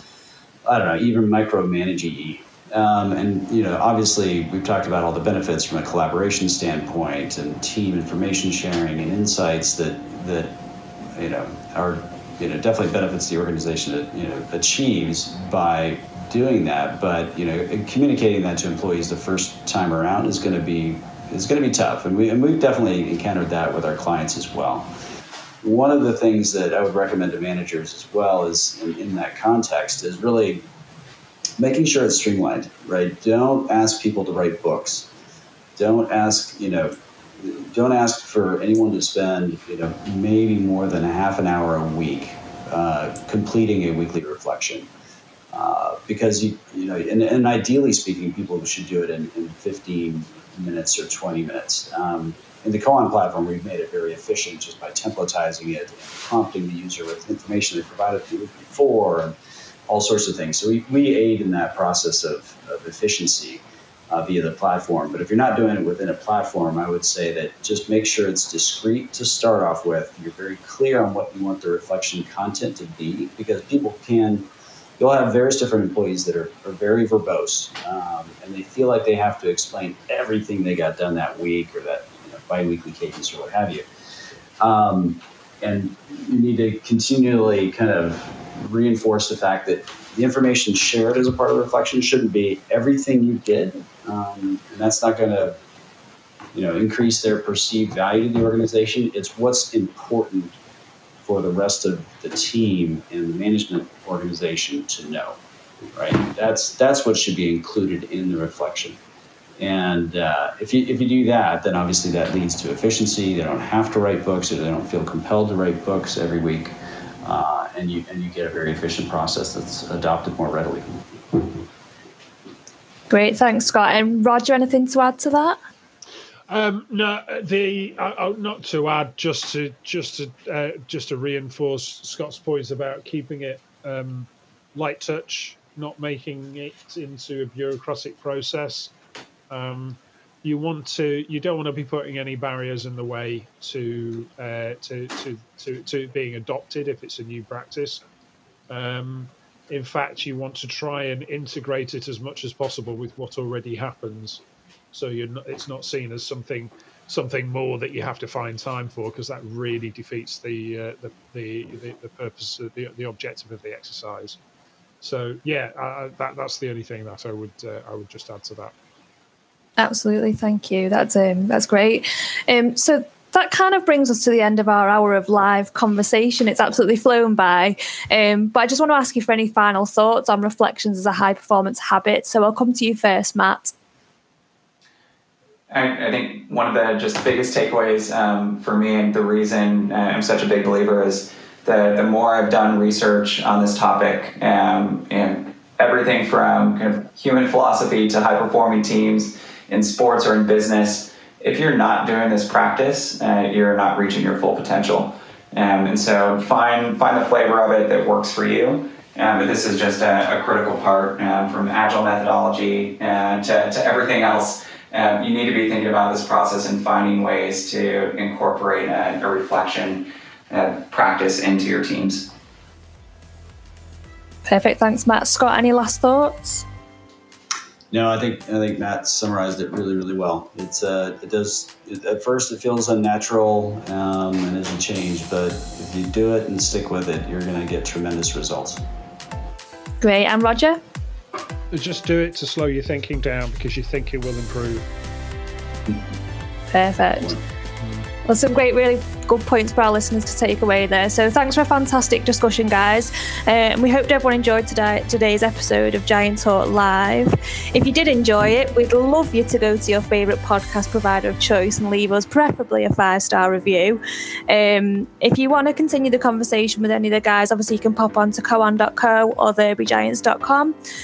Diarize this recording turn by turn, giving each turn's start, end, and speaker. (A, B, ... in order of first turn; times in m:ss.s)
0:00.6-0:10.5 A
0:11.1-0:24.9 A
0:25.6-0:30.6 A
0:31.6-0:35.1 A
0:35.8-0:44.9 A
0:45.5-0:59.4 A
0:59.9-1:14.5 A
1:15.0-1:23.9 A
1:24.6-1:35.6 A
1:36.5-1:40.6 A
1:41.2-1:45.4 A
1:45.9-1:49.0 A
1:49.6-2:01.5 A
2:03.1-2:05.6 B
2:06.5-2:18.9 C
2:19.5-2:28.0 C
2:28.7-2:34.4 C
2:34.9-2:44.4 C
2:45.0-2:48.7 C
2:49.8-3:03.7 B
3:05.7-3:42.3 D
3:44.4-3:46.6 B
3:47.9-3:58.8 A
4:00.0-4:00.8 B
4:01.7-4:04.8 C
4:06.7-4:07.4 B
4:07.8-4:08.0 C
4:08.2-4:30.7 B